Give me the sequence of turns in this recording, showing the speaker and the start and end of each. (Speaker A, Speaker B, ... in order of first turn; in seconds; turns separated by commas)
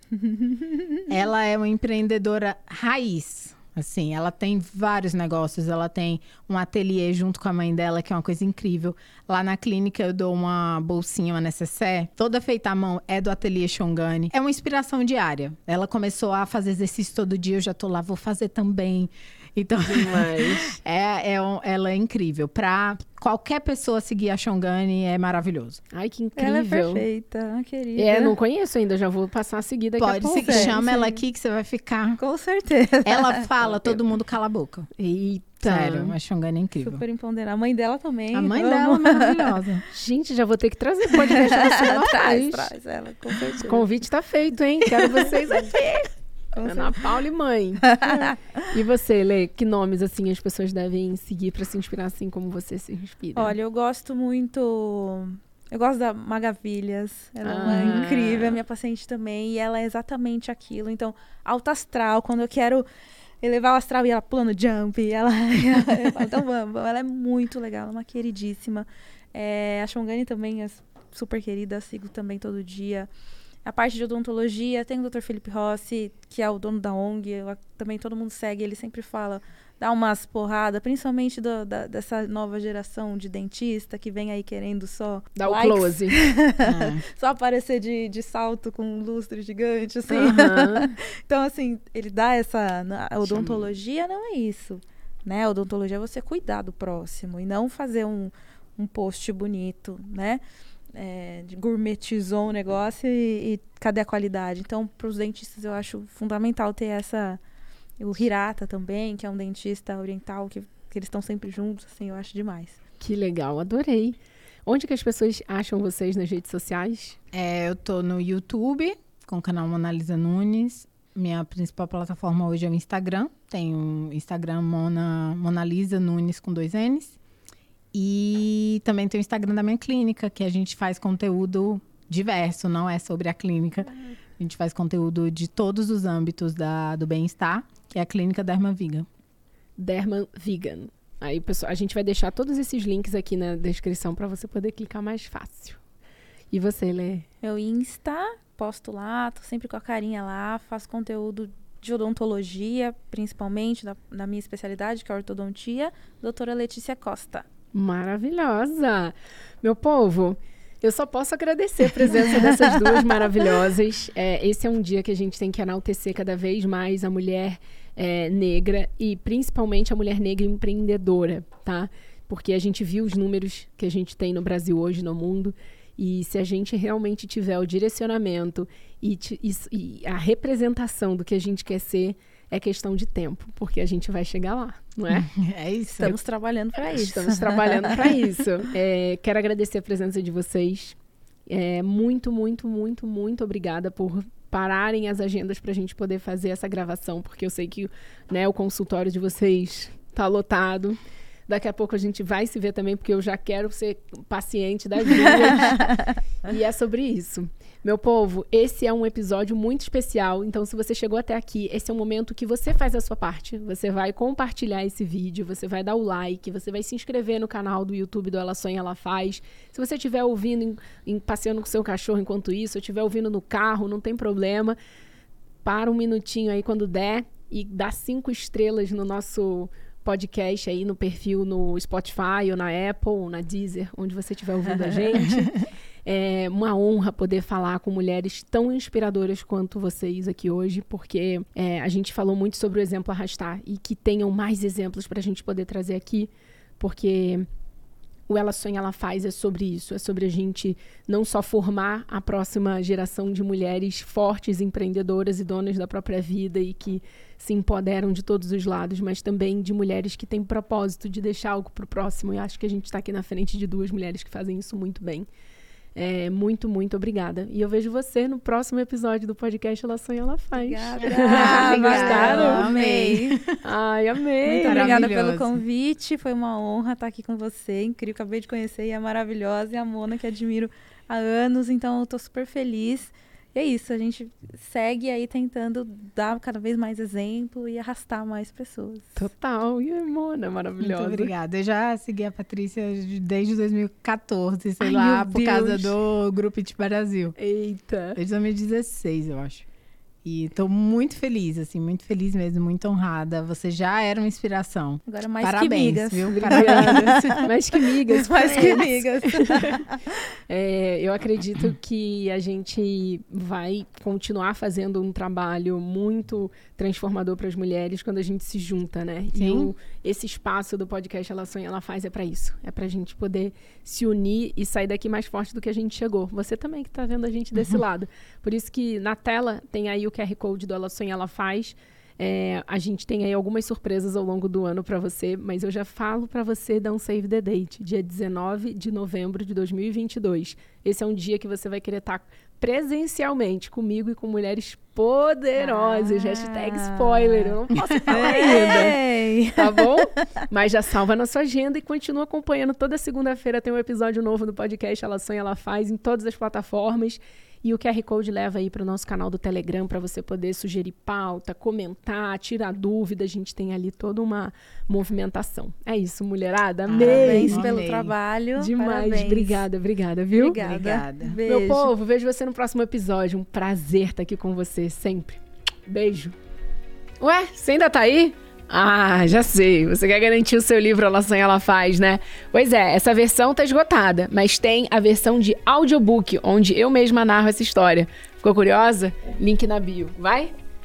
Speaker A: 0.2-1.0, Speaker B: 1.1-25.8, Speaker C: 19.9-20.8, Speaker C: 25.9-27.1, Speaker A: 26.4-28.3, Speaker C: 27.9-30.8, Speaker B: 30.0-32.2, Speaker A: 30.3-31.2, Speaker A: 32.2-34.0, Speaker B: 33.0-34.9, Speaker C: 35.0-36.1, Speaker B: 35.6-37.0, Speaker A: 36.8-39.5, Speaker B: 38.3-39.8, Speaker C: 39.9-42.7, Speaker A: 41.2-43.8, Speaker C: 43.6-46.1, Speaker A: 44.9-46.0, Speaker A: 46.5-47.1, Speaker C: 46.6-53.5, Speaker A: 47.9-48.6, Speaker A: 53.4-62.9, Speaker C: 57.4-58.6, Speaker A: 63.4-73.1, Speaker A: 73.6-100.4, Speaker C: 85.4-86.2, Speaker B: 86.6-87.0, Speaker C: 90.1-90.9, Speaker C: 93.2-93.7, Speaker A: 100.9-107.4, Speaker A: 108.0-112.8, Speaker C: 113.0-117.2, Speaker B: 117.3-127.2, Speaker B: 127.9-139.1, Speaker C: 139.8-145.8, Speaker C: 146.5-147.2, Speaker A: 147.4-157.4, Speaker C: 157.7-185.3, Speaker A: 162.4-163.3, Speaker B: 185.1-186.2, Speaker A: 185.9-188.1, Speaker C: 186.9-224.8, Speaker A: 205.7-206.0, Speaker C: 225.6-235.5, Speaker C: 236.0-247.5, Speaker C: 248.3-265.3, Speaker C: 265.9-272.7, Speaker A: 270.5-273.4, Speaker B: 271.1-273.6, Speaker C: 273.6-275.1, Speaker A: 274.4-289.3, Speaker B: 274.7-275.6, Speaker C: 289.1-291.3, Speaker B: 290.8-297.4, Speaker A: 294.8-295.9, Speaker C: 297.4-298.2, Speaker B: 298.1-299.6, Speaker B: 300.2-307.4, Speaker A: 305.1-307.5, Speaker C: 306.2-309.9, Speaker A: 308.1-310.1, Speaker C: 310.5-349.0, Speaker B: 319.3-319.7, Speaker A: 345.6-349.9, Speaker B: 347.9-348.4, Speaker C: 349.5-367.8, Speaker B: 366.9-368.1, Speaker A: 366.9-369.6, Speaker C: 368.6-370.6, Speaker A: 370.3-371.9, Speaker B: 370.6-371.4, Speaker C: 371.4-376.3, Speaker C: 377.2-390.5